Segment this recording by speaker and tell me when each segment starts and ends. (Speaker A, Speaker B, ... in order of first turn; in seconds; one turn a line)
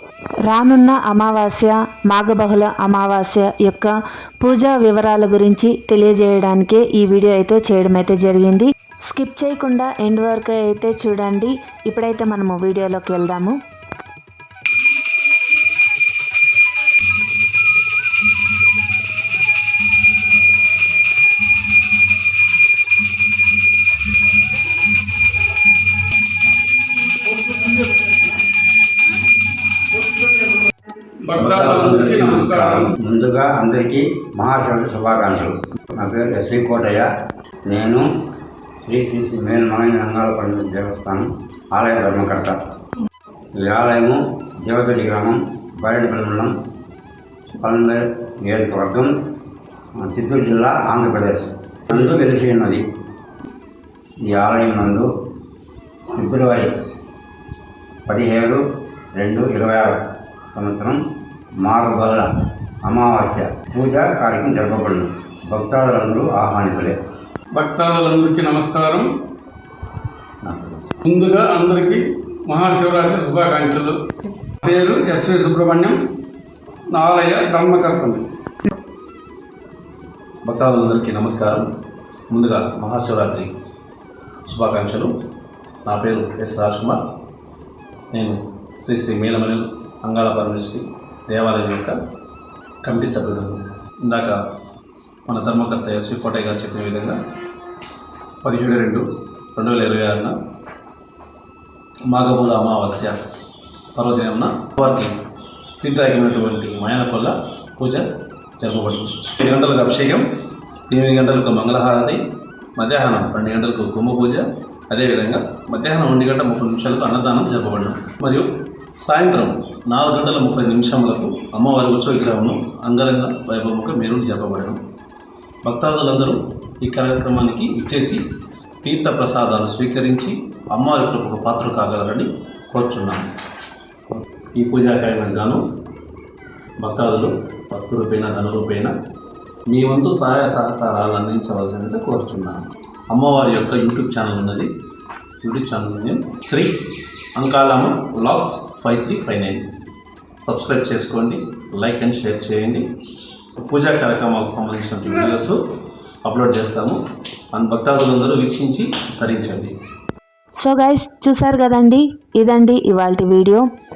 Speaker A: 0.5-13.6
Speaker B: 31.2-32.9
Speaker C: 31.4-32.8
Speaker D: 32.8-37.1
Speaker D: 37.6-38.0
Speaker D: 38.8-42.5
Speaker D: 43.6-46.5
Speaker D: 47.6-49.1
Speaker D: 50.0-52.8
Speaker D: 54.3-55.1
Speaker D: 56.1-56.7
Speaker D: 58.1-58.6
Speaker D: 59.1-60.0
Speaker D: 60.5-61.0
Speaker D: 61.6-67.0
Speaker B: 67.5-69.1
Speaker D: 70.4-70.8
Speaker B: 71.0-74.0
Speaker B: 74.6-76.0
Speaker B: 76.9-78.2
Speaker C: 80.4-81.6
Speaker C: 82.3-83.5
Speaker C: 84.5-85.1
Speaker C: 85.8-87.0
Speaker C: 88.1-91.9
Speaker C: 92.8-94.4
Speaker C: 95.3-97.2
Speaker C: 98.4-100.3
Speaker C: 102.1-103.2
Speaker C: 103.9-105.1
Speaker C: 105.8-108.0
Speaker C: 108.6-110.2
Speaker C: 110.9-112.2
Speaker C: 112.8-118.5
Speaker C: 119.0-124.8
Speaker C: 125.6-128.2
Speaker C: 128.8-133.3
Speaker C: 134.1-135.6
Speaker C: 136.8-138.9
Speaker C: 139.7-144.7
Speaker C: 145.4-149.7
Speaker C: 150.4-152.8
Speaker C: 153.6-155.6
Speaker C: 156.2-157.0
Speaker C: 157.5-159.7
Speaker A: 160.6-163.6